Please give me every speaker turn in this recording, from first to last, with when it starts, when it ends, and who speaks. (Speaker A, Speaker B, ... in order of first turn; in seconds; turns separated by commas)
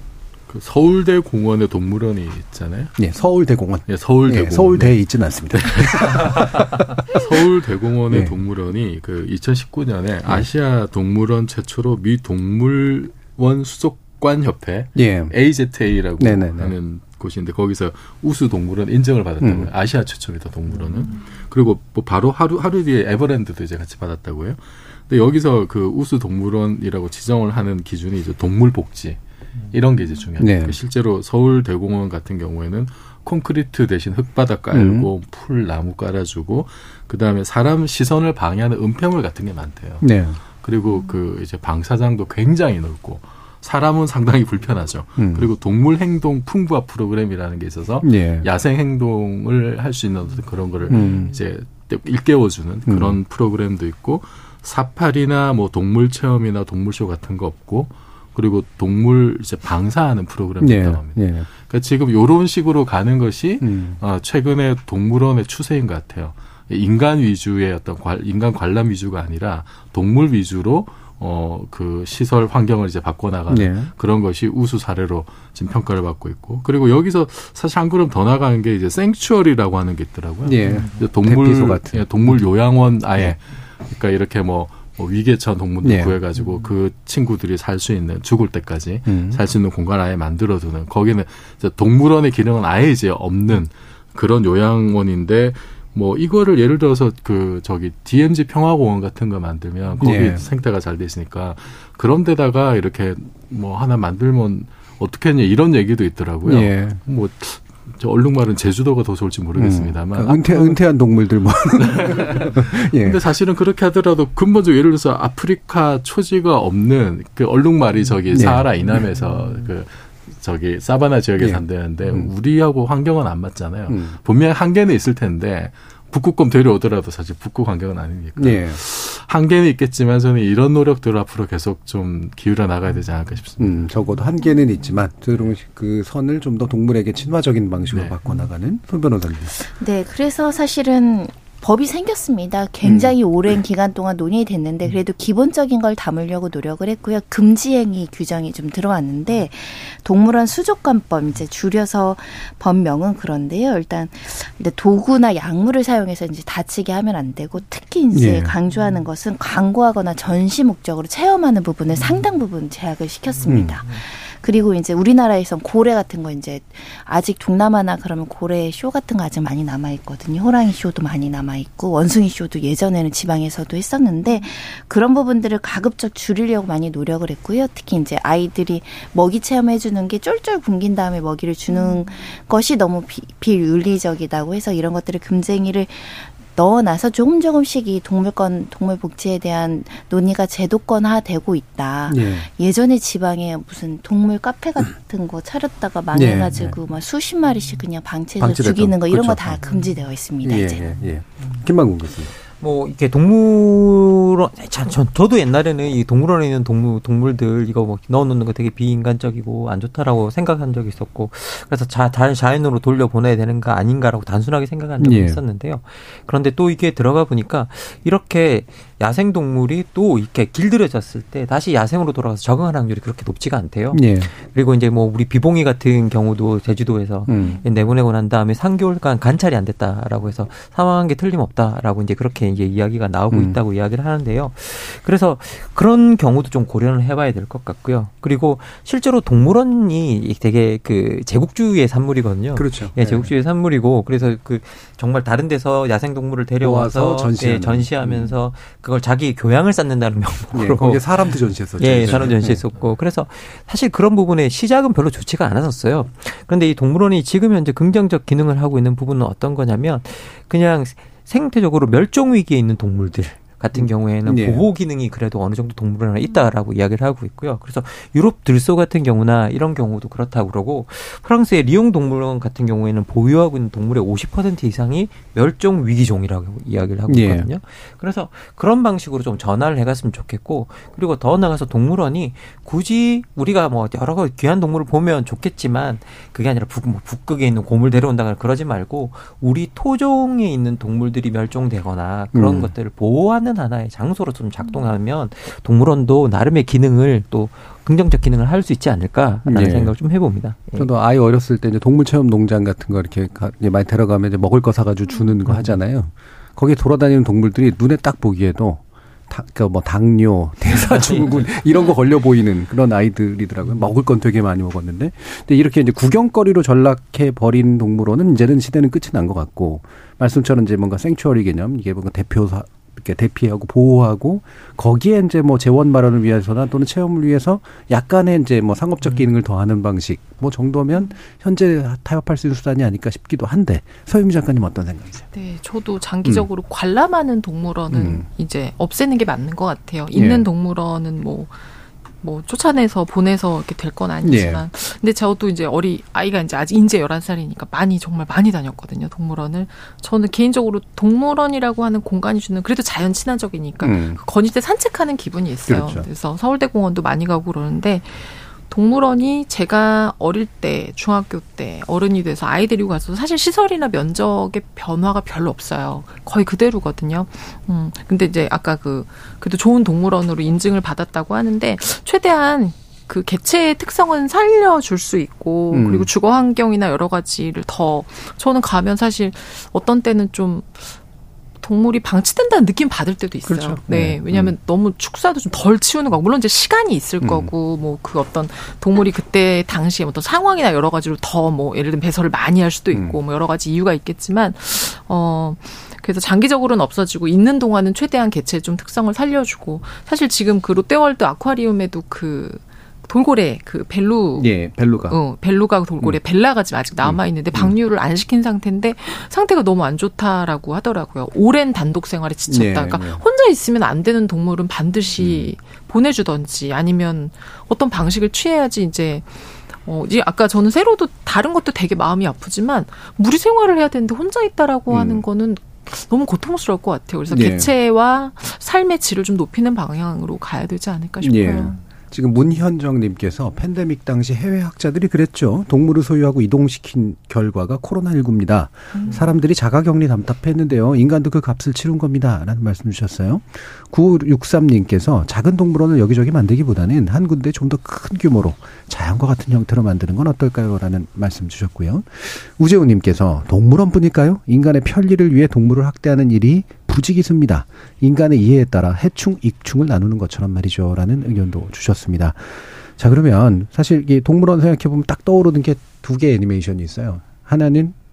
Speaker A: 0.5-3.0, Speaker B: 3.0-6.9, Speaker A: 3.9-5.0, Speaker A: 5.5-29.2, Speaker B: 14.9-15.3, Speaker B: 16.2-16.7, Speaker B: 19.4-19.7, Speaker A: 29.7-110.8, Speaker B: 30.4-30.8, Speaker B: 34.7-35.1, Speaker B: 40.0-40.4, Speaker B: 45.2-45.5, Speaker B: 48.0-48.5, Speaker B: 50.9-51.3, Speaker B: 52.9-53.2, Speaker B: 60.6-61.5, Speaker B: 63.6-64.0, Speaker B: 73.5-73.9, Speaker B: 80.4-82.4, Speaker B: 85.8-86.2, Speaker B: 89.1-89.4, Speaker B: 100.0-100.5, Speaker B: 106.5-107.0, Speaker B: 109.5-113.2, Speaker A: 111.8-133.9, Speaker B: 118.3-118.9, Speaker B: 121.4-122.3, Speaker B: 123.9-124.2, Speaker B: 128.4-128.8, Speaker B: 133.6-139.6, Speaker A: 137.9-138.2, Speaker C: 139.6-201.1, Speaker B: 142.8-143.1, Speaker B: 158.1-158.6, Speaker B: 163.4-163.8, Speaker B: 192.1-192.5, Speaker B: 196.1-196.8, Speaker B: 198.4-199.8, Speaker B: 200.4-202.3, Speaker D: 202.6-300.9, Speaker B: 215.0-215.4, Speaker B: 223.9-224.3, Speaker B: 227.3-227.6, Speaker B: 233.3-233.6, Speaker B: 242.6-243.3, Speaker B: 246.6-248.3, Speaker B: 250.5-252.6, Speaker B: 263.8-264.7, Speaker B: 277.1-277.5, Speaker B: 292.3-292.7, Speaker B: 299.5-299.9, Speaker B: 300.8-335.3, Speaker E: 335.3-341.6, Speaker B: 337.9-338.3, Speaker B: 340.1-340.5, Speaker E: 342.2-381.0, Speaker B: 344.2-344.6, Speaker B: 353.8-354.2, Speaker B: 355.7-356.1, Speaker B: 375.7-376.1, Speaker E: 381.6-431.8, Speaker B: 383.5-384.6, Speaker B: 387.2-387.5, Speaker B: 392.9-393.2, Speaker B: 404.4-405.2, Speaker B: 407.0-407.8, Speaker B: 412.5-413.2, Speaker B: 415.2-415.5, Speaker B: 424.9-425.2, Speaker B: 427.3-427.7, Speaker B: 431.2-467.9, Speaker E: 438.9-439.4